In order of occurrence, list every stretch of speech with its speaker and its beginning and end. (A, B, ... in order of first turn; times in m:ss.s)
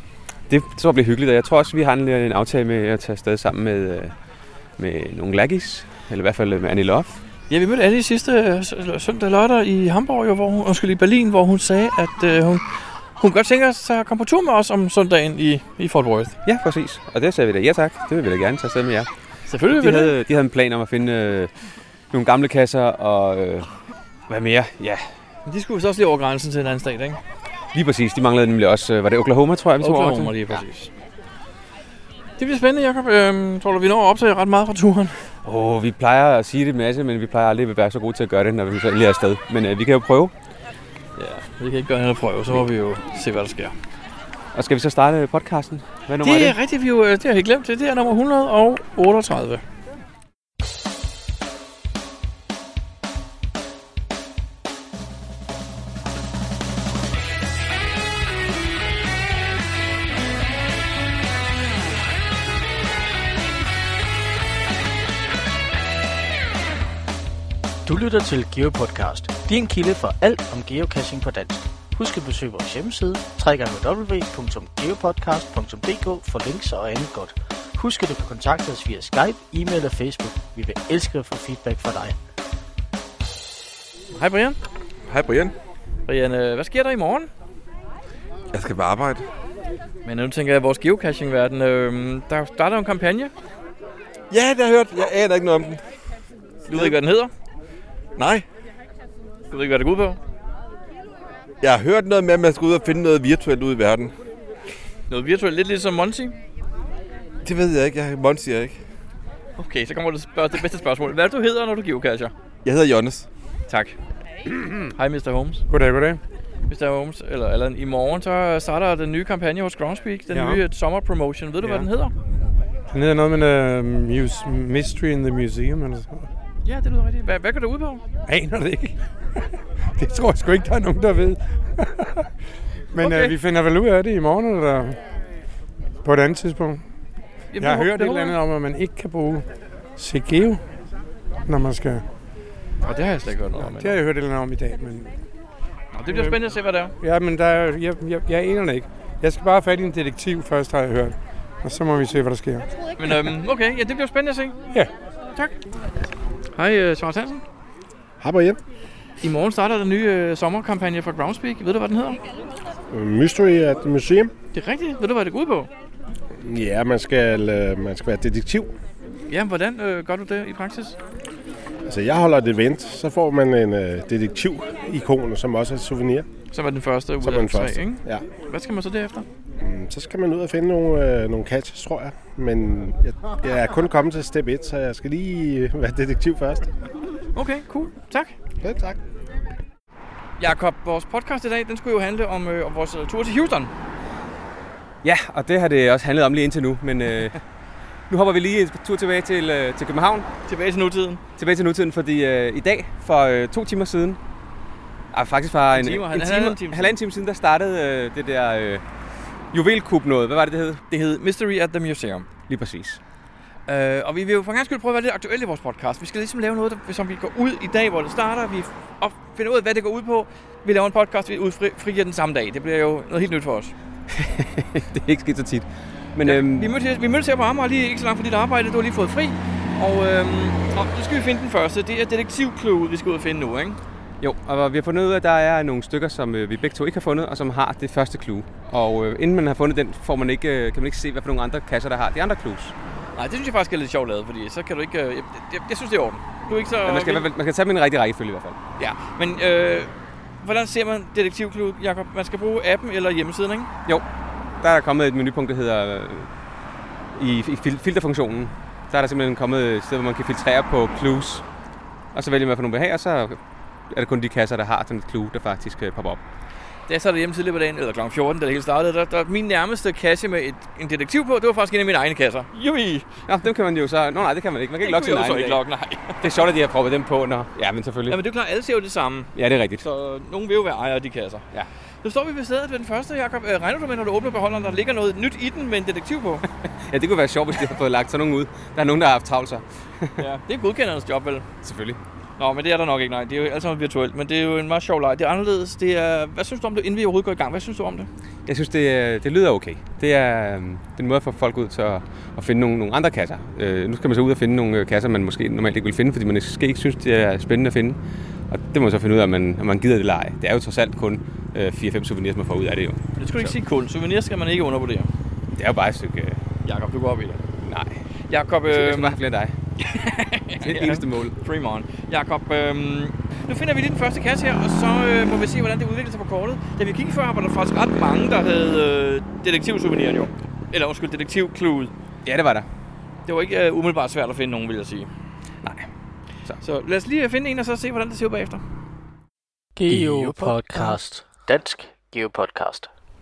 0:00.5-0:04.1 A
0:04.8-0:07.2 A
0:07.5-0:12.6 B
0:13.2-0:16.4 B
0:16.4-0:19.1 A
0:19.5-0:20.2 B
0:19.6-0:21.5 A
0:22.1-0:23.7 A
0:24.3-0:25.0 A
0:25.4-0:27.2 B
0:27.7-0:30.6 A
0:29.8-0:30.9 B
0:32.4-0:35.2 B
0:35.4-0:40.3 A
0:41.2-0:43.7 B
0:44.5-0:46.6 A
0:46.2-0:49.6 B
1:07.8-1:22.2 C
1:24.1-1:24.6 B
1:25.1-1:25.5 D
1:26.0-1:27.3 B
1:28.5-1:29.3 D
1:30.0-1:33.3 B
1:34.3-1:35.8 D
1:36.7-1:37.3 B
1:36.7-1:37.0 D
1:38.2-1:38.4 D
1:39.5-1:40.2 B
1:41.6-1:44.1 D
1:45.1-1:46.3 B
1:47.4-1:48.8 D
1:49.6-1:52.3 B
1:52.6-1:53.3 D
1:53.7-1:54.0 B
1:54.9-1:55.6 B
1:55.7-1:56.2 E
1:56.7-2:02.1 B
2:00.3-2:00.6 E
2:01.6-2:01.9 E
2:02.9-2:06.3 E
2:06.6-2:08.0 B
2:08.3-2:09.4 E
2:10.0-2:12.2 E
2:12.9-2:15.0 E
2:13.0-2:13.4 B
2:16.0-2:16.8 E
2:17.5-2:18.4 B
2:17.6-2:20.6 E
2:21.4-2:22.0 E
2:22.8-2:24.0 B
2:23.5-2:25.2 E
2:25.9-2:26.9 B
2:26.1-2:32.7 E
2:33.0-2:34.6 B
2:36.5-2:37.4 B
2:38.2-2:38.6 F
2:39.2-2:42.2 B
2:42.9-2:44.3 F
2:44.5-2:45.7 B
2:46.4-2:48.7 F
2:49.3-2:51.0 B
2:51.8-2:56.3 F
2:56.5-2:59.3 B
2:57.2-2:58.2 F
2:59.6-3:06.7 F
3:07.3-3:08.3 B
3:08.6-3:09.0 F
3:10.4-3:13.7 B
3:15.0-3:17.4 A
3:18.1-3:20.3 A
3:20.5-3:21.2 B
3:21.4-3:24.2 A
3:25.1-3:28.8 A
3:25.7-3:26.9 B
3:29.5-3:30.8 A
3:30.9-3:32.3 B
3:32.5-3:33.0 A
3:33.7-3:43.7 B
3:44.1-3:46.7 A
3:46.2-3:53.8 B
3:54.2-4:02.7 A
4:03.2-4:07.2 B
4:06.8-4:08.6 A
4:08.8-4:09.9 B
4:10.4-4:13.7 B
4:14.6-4:16.3 A
4:17.1-4:21.4 A
4:22.1-4:23.4 A
4:23.9-4:26.2 A
4:26.9-4:33.1 B
4:33.2-4:35.6 A
4:34.8-4:36.3 B
4:36.2-4:38.2 A
4:38.1-4:41.4 B
4:39.3-4:39.8 A
4:42.0-4:46.4 B
4:46.6-4:50.2 A
4:50.2-4:51.4 B
4:51.6-4:52.0 A
4:52.4-4:58.1 B
4:58.4-5:13.5 A
5:13.2-5:15.1 B
5:15.5-5:16.4 A
5:16.6-5:17.4 B
5:17.6-5:18.0 A
5:18.3-5:19.2 B
5:18.6-5:19.5 A
5:19.8-5:31.9 B
5:20.6-5:21.4 A
5:32.2-5:32.7 A
5:33.2-5:35.1 B
5:36.6-5:38.6 B
5:39.8-5:42.9 C